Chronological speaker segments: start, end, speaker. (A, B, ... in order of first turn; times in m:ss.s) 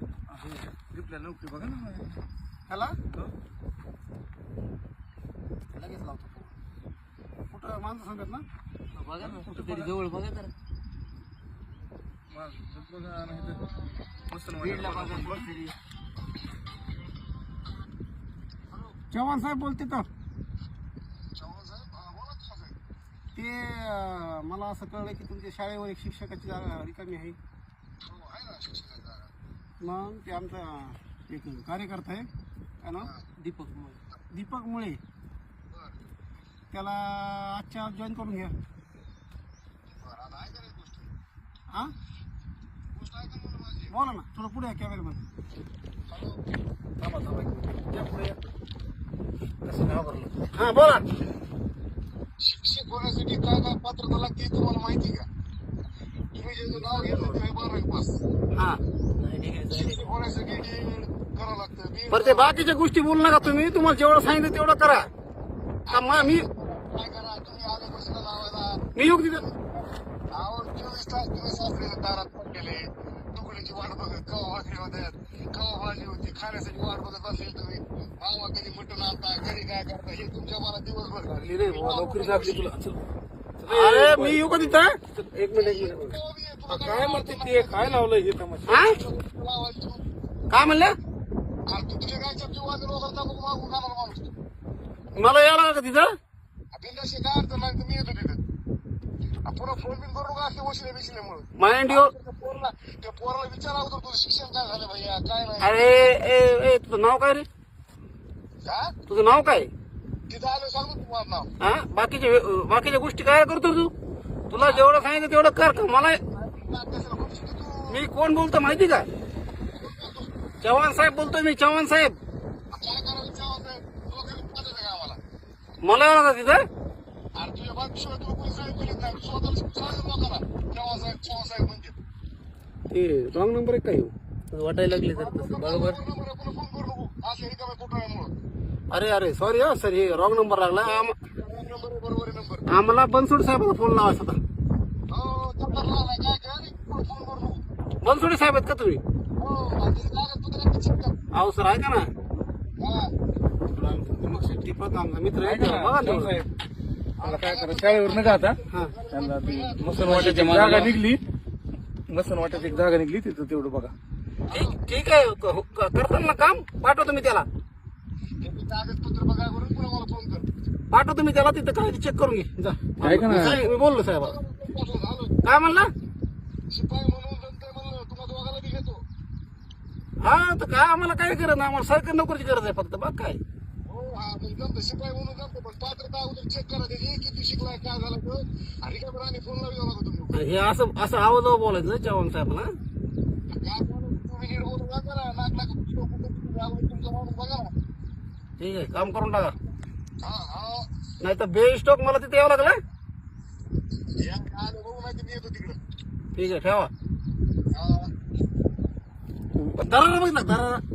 0:00.3-0:02.2 A
0:02.7-0:03.0 B
0:05.7-0:06.5 B
0:07.5-0:08.4 B
0:08.9-0:10.5 C
0:09.2-0:09.9 A
0:12.3-0:13.6 A
0:14.3-0:15.5 A
0:14.6-0:15.8 C
0:19.1-0:20.1 B
0:21.4-0:22.8 D
0:23.4-0:27.4 B
0:28.0-0:29.3 D
0:29.8-0:32.3 B
0:32.8-0:33.1 B
0:33.0-0:33.3 D
0:33.4-0:34.0 C
0:34.3-0:35.0 B
0:35.7-0:36.0 D
0:36.7-0:38.6 B
0:39.9-0:41.1 D
0:43.0-0:43.9 D
0:43.9-0:45.2 B
0:46.1-0:46.4 D
0:50.5-0:51.0 B
0:52.4-0:55.3 D
0:56.4-0:58.2 D
0:58.5-0:58.8 B
0:59.2-1:00.1 C
0:59.7-1:02.8 D
1:02.1-1:05.1 B
1:05.9-1:22.8 D
1:05.9-1:06.4 B
1:09.0-1:09.4 B
1:21.4-1:23.0 A
1:23.6-1:26.1 A
1:23.7-1:25.0 B
1:25.6-1:28.0 D
1:26.7-1:28.8 A
1:28.7-1:29.0 B
1:28.7-1:30.0 D
1:30.5-1:30.9 B
1:31.7-1:34.3 D
1:35.2-1:36.1 B
1:36.7-1:38.4 D
1:39.5-1:45.8 D
1:41.6-1:42.1 B
1:45.6-1:47.5 B
1:48.6-1:49.0 D
1:49.1-1:49.7 B
1:50.3-1:51.5 D
1:51.6-1:53.9 B
1:54.5-1:56.2 B
1:54.6-1:55.1 D
1:56.3-1:58.0 D
1:57.9-1:59.1 B
1:59.8-2:00.3 D
2:00.6-2:02.2 B
2:02.7-2:05.2 D
2:05.8-2:06.6 B
2:07.4-2:12.0 D
2:12.9-2:14.1 B
2:14.5-2:16.0 C
2:15.0-2:18.3 D
2:18.9-2:21.2 B
2:20.8-2:22.7 D
2:22.7-2:24.4 B
2:25.1-2:27.6 D
2:28.0-2:29.0 B
2:29.4-2:31.2 D
2:31.3-2:32.1 B
2:32.8-2:33.1 D
2:33.6-2:36.4 B
2:35.4-2:36.5 A
2:37.2-2:41.0 D
2:37.2-2:38.6 A
2:39.1-2:41.2 A
2:40.1-2:40.9 B
2:42.1-2:44.0 A
2:42.5-2:42.9 D
2:44.5-2:44.8 D
2:44.5-2:47.5 B
2:48.4-2:50.5 D
2:50.9-2:54.4 B
2:53.0-2:53.6 A
2:53.4-2:55.4 D
2:55.4-2:55.9 B
2:56.7-2:59.0 D
3:00.2-3:03.4 B
3:03.9-3:10.4 D
3:10.3-3:12.7 B
3:13.5-3:17.7 D
3:18.6-3:19.6 B
3:20.2-3:20.9 D
3:21.2-3:22.8 B
3:24.2-3:25.8 D
3:26.4-3:26.9 B
3:27.7-3:28.1 D
3:29.6-3:30.8 B